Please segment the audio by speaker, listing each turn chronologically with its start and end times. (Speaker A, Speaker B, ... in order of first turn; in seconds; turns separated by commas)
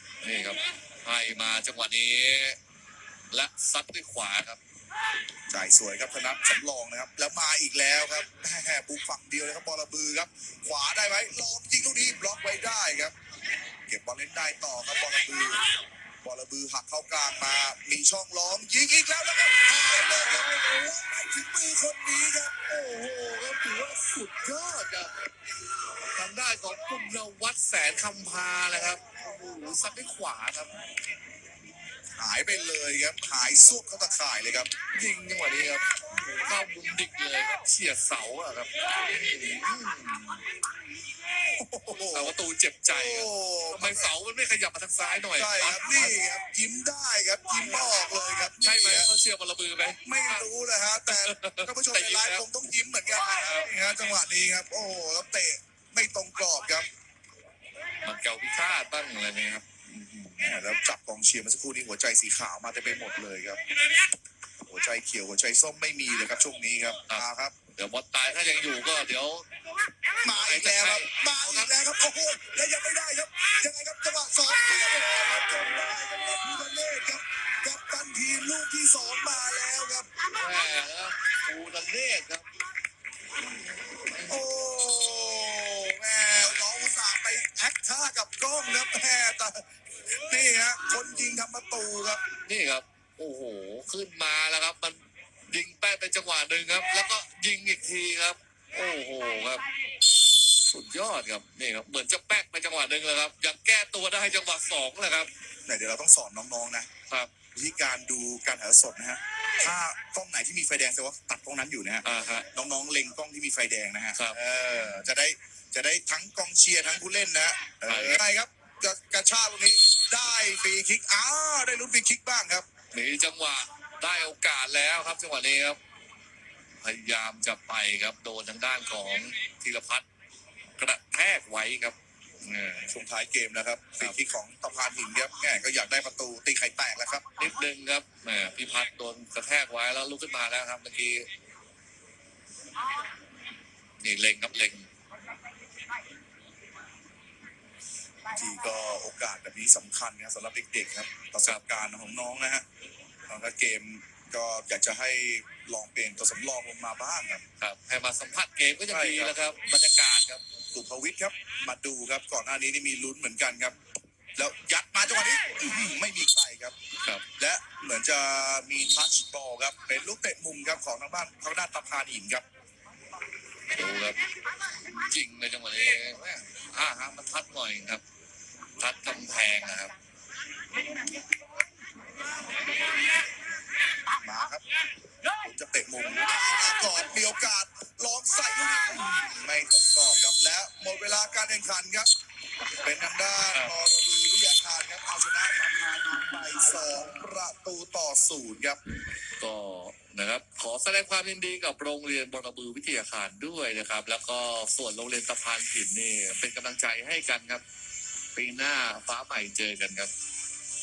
Speaker A: 0.2-2.6, Speaker A: 3.3-4.6, Speaker B: 5.5-13.1, Speaker B: 13.9-15.7, Speaker B: 16.2-22.6, Speaker A: 22.6-25.3, Speaker A: 26.1-30.7, Speaker B: 32.2-34.7, Speaker A: 34.9-40.4, Speaker B: 41.5-42.3, Speaker A: 41.9-46.2, Speaker B: 42.9-44.1, Speaker B: 45.4-49.1, Speaker A: 48.6-52.5, Speaker B: 50.0-56.9, Speaker A: 53.3-53.6, Speaker A: 58.0-59.6, Speaker B: 59.9-63.6, Speaker B: 64.6-67.5, Speaker A: 67.1-69.5, Speaker A: 70.2-71.7, Speaker B: 70.2-80.1, Speaker A: 80.3-82.4, Speaker A: 84.0-84.4, Speaker B: 84.2-92.2, Speaker A: 86.3-86.7, Speaker A: 92.5-99.6, Speaker A: 100.6-105.3, Speaker B: 105.7-106.9, Speaker B: 107.5-122.7, Speaker A: 112.0-112.5, Speaker A: 114.1-115.1, Speaker A: 117.9-118.2, Speaker A: 122.9-125.8, Speaker A: 126.8-130.0, Speaker A: 130.8-132.9, Speaker B: 132.9-137.3, Speaker A: 137.4-141.3, Speaker A: 144.0-144.9, Speaker B: 148.3-152.6, Speaker B: 153.3-157.4, Speaker A: 157.6-160.4, Speaker B: 158.9-159.3, Speaker B: 160.7-163.7, Speaker B: 164.4-166.7, Speaker B: 167.4-172.4, Speaker A: 173.7-174.2, Speaker A: 174.9-178.0, Speaker A: 178.8-179.9, Speaker B: 184.2-184.6, Speaker B: 185.4-192.1, Speaker B: 192.8-198.8, Speaker A: 199.4-207.6, Speaker A: 208.3-210.1